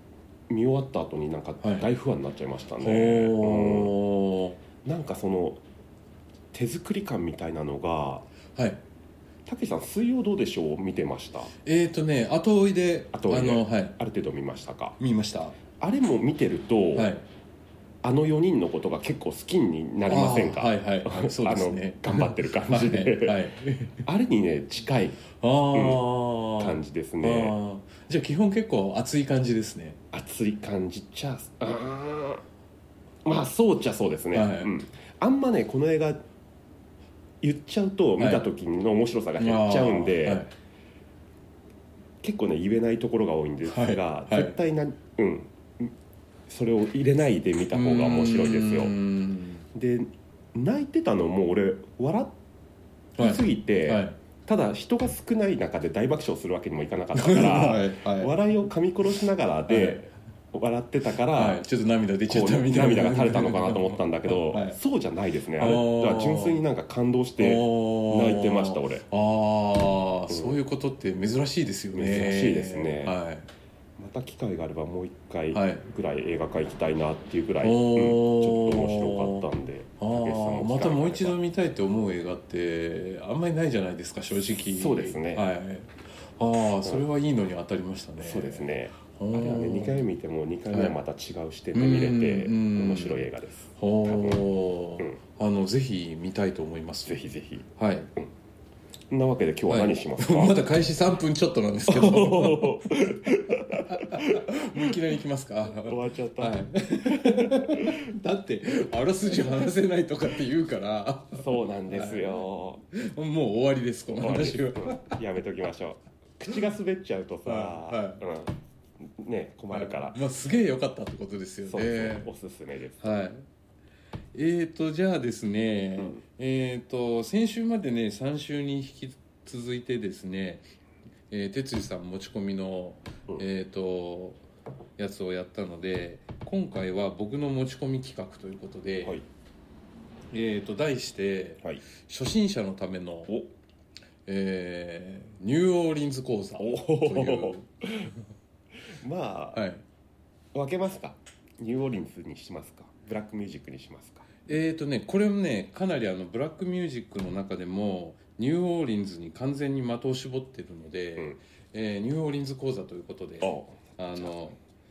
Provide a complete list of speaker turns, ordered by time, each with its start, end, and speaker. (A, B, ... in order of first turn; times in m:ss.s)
0:00.5-0:03.9 A
0:01.6-0:01.9 B
0:02.8-0:04.6 B
0:04.8-0:05.6 A
0:06.5-0:08.3 A
0:08.6-0:08.8 B
0:09.4-0:11.5 A
0:11.6-0:14.0 B
0:13.1-0:15.0 A
0:15.0-0:15.6 B
0:15.8-0:17.1 A
0:16.9-0:17.2 B
0:18.0-0:23.5 A
0:20.1-0:24.0 B
0:24.0-0:27.6 A
0:25.4-0:30.0 B
0:30.1-0:32.4 A
0:33.2-0:36.3 A
0:34.3-0:34.7 B
0:37.4-0:40.5 A
0:38.2-0:38.4 B
0:39.4-0:40.5 B
0:42.2-0:45.9 A
0:43.7-0:44.6 B
0:46.5-0:48.9 A
0:47.7-0:49.7 B
0:49.7-0:52.4 A
0:53.2-0:54.2 B
0:53.2-1:01.6 A
0:57.1-0:58.4 B
0:59.7-1:00.0 B
1:01.3-1:04.8 B
1:02.3-1:09.0 A
1:05.6-1:06.6 B
1:07.4-1:13.5 B
1:10.3-1:10.6 A
1:11.9-1:13.2 A
1:14.0-1:21.4 A
1:15.5-1:15.8 B
1:17.6-1:30.1 B
1:24.6-1:25.5 A
1:28.2-1:34.5 A
1:31.7-1:37.2 B
1:37.0-1:38.3 A
1:37.7-1:38.1 B
1:39.1-1:40.6 A
1:39.7-1:42.9 B
1:41.9-1:44.9 A
1:43.7-1:52.4 B
1:45.8-1:48.0 A
1:51.3-1:52.8 A
1:52.9-1:55.2 B
1:54.1-2:00.2 A
1:57.4-1:58.2 B
1:59.7-2:02.3 B
2:01.7-2:03.1 A
2:03.0-2:03.4 B
2:04.3-2:10.6 B
2:11.3-2:14.4 B
2:15.0-2:19.2 B
2:20.3-2:23.3 B
2:24.2-2:27.7 B
2:26.6-2:28.1 A
2:28.9-2:29.6 A
2:29.5-2:29.8 B
2:30.5-2:34.3 A
2:34.4-2:44.6 B
2:43.4-2:44.3 A